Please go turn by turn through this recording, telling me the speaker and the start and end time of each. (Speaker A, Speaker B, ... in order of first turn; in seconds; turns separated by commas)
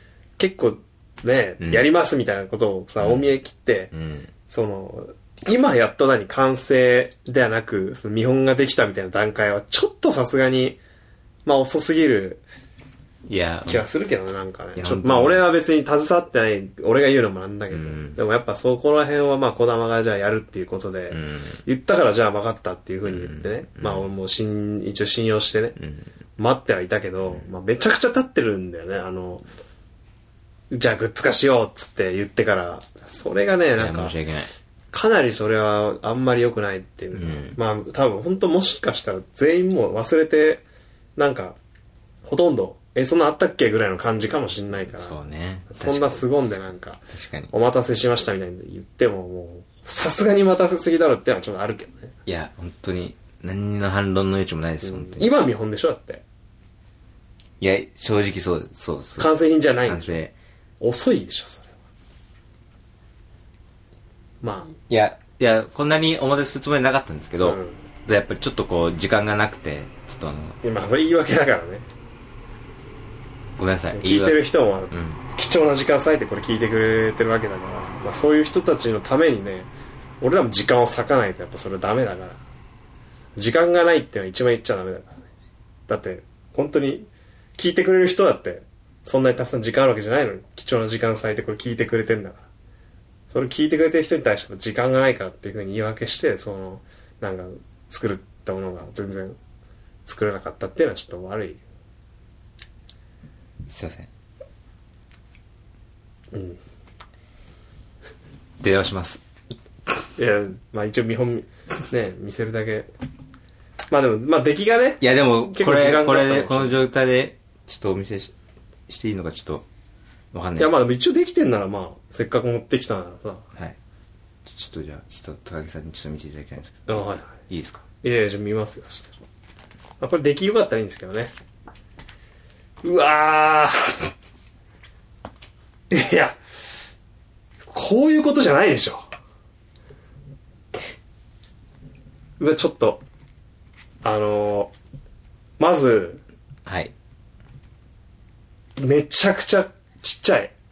Speaker A: 0.4-3.9, Speaker B: 3.0-3.3, Speaker B: 3.9-4.3, Speaker A: 4.5-10.8, Speaker A: 11.4-12.4, Speaker B: 13.3-13.8, Speaker A: 13.7-25.8, Speaker B: 14.8-15.4, Speaker B: 17.7-18.2, Speaker B: 21.1-21.6, Speaker B: 23.1-24.1, Speaker B: 25.8-26.1, Speaker A: 26.4-29.5, Speaker A: 30.7-34.1, Speaker B: 33.8-34.5, Speaker A: 34.9-40.6, Speaker B: 37.1-37.6, Speaker A: 41.2-41.6, Speaker A: 42.2-45.2, Speaker B: 45.0-46.3, Speaker A: 45.7-52.2, Speaker B: 47.1-47.5, Speaker B: 52.3-55.3, Speaker A: 54.8-56.2, Speaker B: 57.6-59.3, Speaker A: 59.2-60.2, Speaker B: 59.9-60.4, Speaker A: 60.8-61.7, Speaker A: 64.4-64.7, Speaker B: 64.9-70.6, Speaker A: 67.4-67.8, Speaker A: 70.6-71.9, Speaker B: 73.6-75.2, Speaker A: 73.9-79.7, Speaker A: 80.2-82.4, Speaker A: 83.4-85.3, Speaker A: 85.9-92.5, Speaker A: 93.3-99.4, Speaker A: 100.0-101.6, Speaker B: 103.7-104.1, Speaker A: 106.3-106.6, Speaker B: 108.6-109.2, Speaker A: 110.2-112.9, Speaker A: 113.9-116.8, Speaker B: 115.0-118.3, Speaker B: 118.9-119.7, Speaker B: 120.3-120.8, Speaker A: 120.6-123.5, Speaker B: 124.5-127.8, Speaker A: 126.9-127.4, Speaker A: 128.0-129.2, Speaker A: 130.0-131.3, Speaker A: 132.8-134.1, Speaker A: 135.9-136.4, Speaker A: 137.6-139.1, Speaker A: 142.4-143.0, Speaker A: 144.0-144.7, Speaker A: 145.6-146.2, Speaker B: 146.7-146.9, Speaker A: 148.8-150.5